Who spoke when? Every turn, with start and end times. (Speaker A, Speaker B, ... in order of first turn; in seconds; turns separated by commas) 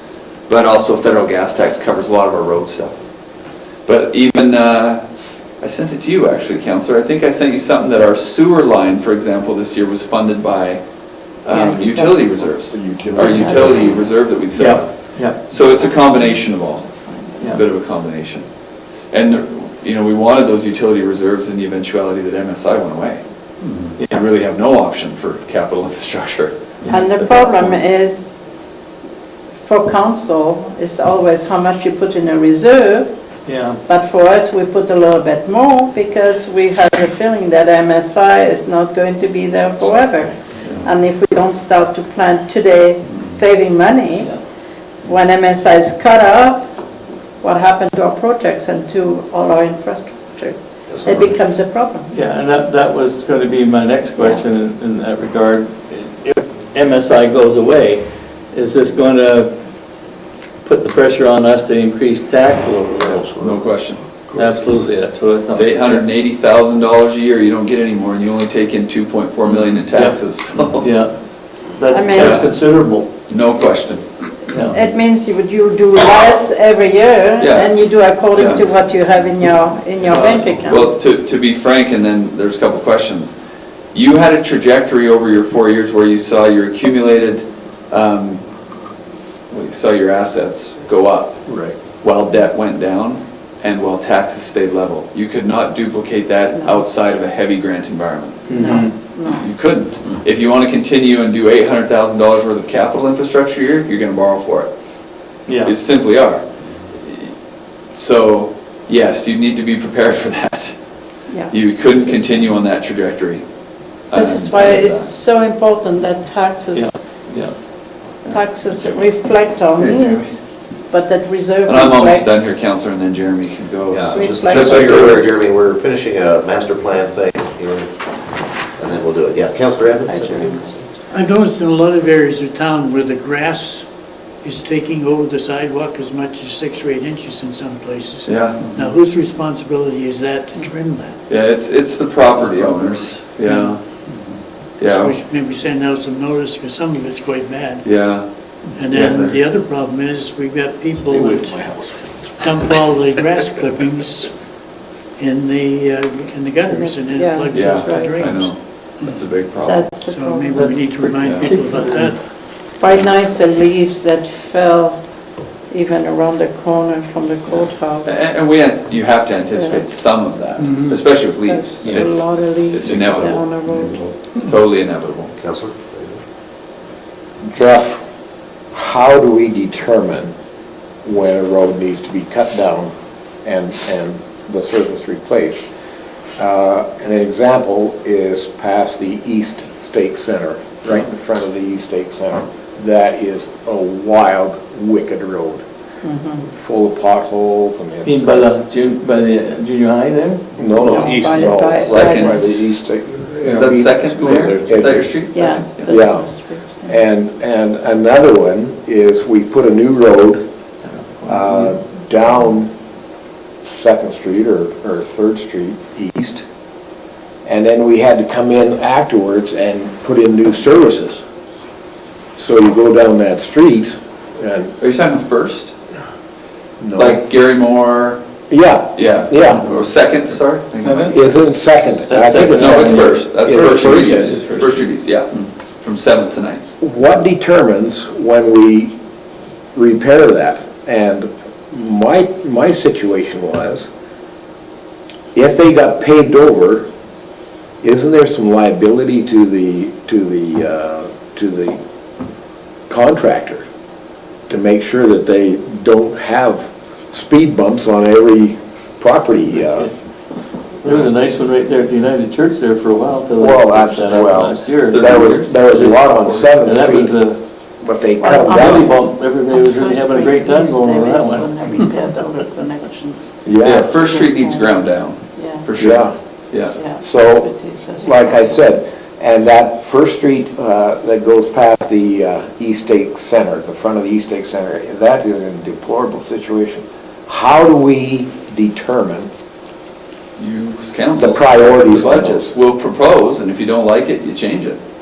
Speaker A: 0.5-3.0, Speaker A: 3.9-5.0, Speaker A: 5.6-10.8, Speaker A: 11.4-18.5, Speaker B: 11.5-12.4, Speaker C: 12.7-13.9, Speaker B: 13.3-13.8, Speaker D: 14.5-15.5, Speaker B: 15.7-17.6, Speaker A: 19.1-23.2, Speaker A: 24.1-27.9, Speaker B: 26.9-28.4, Speaker B: 29.6-33.1, Speaker D: 33.5-33.8, Speaker B: 33.9-44.4, Speaker B: 45.0-46.7, Speaker B: 47.4-52.1, Speaker D: 52.1-59.5, Speaker B: 54.2-54.4, Speaker D: 60.6-63.4, Speaker A: 63.4-64.0, Speaker D: 64.3-66.0, Speaker A: 65.5-70.9, Speaker D: 69.9-70.2, Speaker D: 70.8-73.1, Speaker B: 71.9-72.5, Speaker A: 72.1-72.6, Speaker A: 73.3-74.0, Speaker D: 74.5-74.8, Speaker B: 74.6-81.0, Speaker A: 77.4-77.7, Speaker A: 78.3-78.7, Speaker D: 80.1-80.5, Speaker A: 80.7-83.3, Speaker A: 83.9-88.4, Speaker A: 89.5-91.4, Speaker C: 91.5-91.8, Speaker A: 92.0-98.5, Speaker B: 96.6-96.8, Speaker D: 98.5-99.0, Speaker B: 98.5-99.5, Speaker A: 99.2-104.7, Speaker D: 105.5-105.7, Speaker A: 105.6-106.4, Speaker A: 107.0-107.3, Speaker A: 107.9-110.8, Speaker B: 111.3-112.5, Speaker A: 111.5-113.4, Speaker A: 114.1-115.1, Speaker B: 114.1-116.9, Speaker D: 116.7-117.6, Speaker B: 118.3-122.4, Speaker D: 118.7-119.1, Speaker A: 119.8-120.4, Speaker A: 121.7-125.4, Speaker E: 123.9-128.1, Speaker B: 124.1-125.2, Speaker E: 128.8-130.8, Speaker B: 130.1-130.8, Speaker F: 131.1-133.9, Speaker F: 134.4-141.2, Speaker A: 138.3-138.7, Speaker A: 141.3-143.8, Speaker A: 144.8-145.2, Speaker F: 144.8-147.9, Speaker A: 147.8-148.3, Speaker F: 148.8-151.6, Speaker A: 148.9-149.4, Speaker F: 152.4-154.3, Speaker F: 155.2-158.6, Speaker B: 156.7-158.3, Speaker A: 157.5-159.8, Speaker B: 159.6-160.8, Speaker F: 160.1-162.3, Speaker D: 160.5-162.2, Speaker A: 161.2-161.5, Speaker B: 162.8-165.0, Speaker B: 165.7-168.1, Speaker A: 167.5-173.5, Speaker B: 169.5-169.9, Speaker F: 170.6-171.0, Speaker B: 171.2-174.1, Speaker E: 172.9-173.2, Speaker A: 174.3-175.3, Speaker E: 175.4-176.2, Speaker C: 177.4-178.0, Speaker C: 178.7-180.3, Speaker C: 181.0-182.9, Speaker C: 183.4-185.7, Speaker C: 186.4-195.6, Speaker B: 196.0-196.5, Speaker C: 196.5-198.5, Speaker D: 198.0-201.5, Speaker C: 200.6-205.1, Speaker B: 200.8-202.4, Speaker A: 201.8-202.7, Speaker A: 203.4-205.9, Speaker B: 205.3-207.0, Speaker C: 205.9-206.3, Speaker C: 206.8-210.4, Speaker D: 211.2-211.4, Speaker C: 211.2-212.7, Speaker C: 213.7-216.4, Speaker C: 217.4-221.2, Speaker C: 222.4-224.7, Speaker A: 224.8-225.7, Speaker C: 226.8-227.2, Speaker A: 226.9-228.2, Speaker C: 228.5-229.7, Speaker A: 228.9-231.3, Speaker D: 230.8-231.2, Speaker C: 231.1-234.4, Speaker D: 232.1-234.8, Speaker A: 232.5-236.7, Speaker C: 236.8-238.9, Speaker C: 239.7-243.9, Speaker C: 245.3-246.9, Speaker C: 247.8-251.8, Speaker C: 252.9-253.7, Speaker C: 254.5-259.9, Speaker D: 260.8-266.1, Speaker C: 263.4-267.2, Speaker A: 264.9-266.5, Speaker D: 266.6-267.4, Speaker C: 267.8-268.9, Speaker B: 268.2-273.4, Speaker D: 268.5-272.4, Speaker C: 273.4-273.9, Speaker A: 273.6-276.8, Speaker B: 273.9-275.7, Speaker C: 275.8-276.2, Speaker B: 276.8-278.6, Speaker C: 277.0-289.3, Speaker A: 290.4-294.8, Speaker C: 291.2-292.6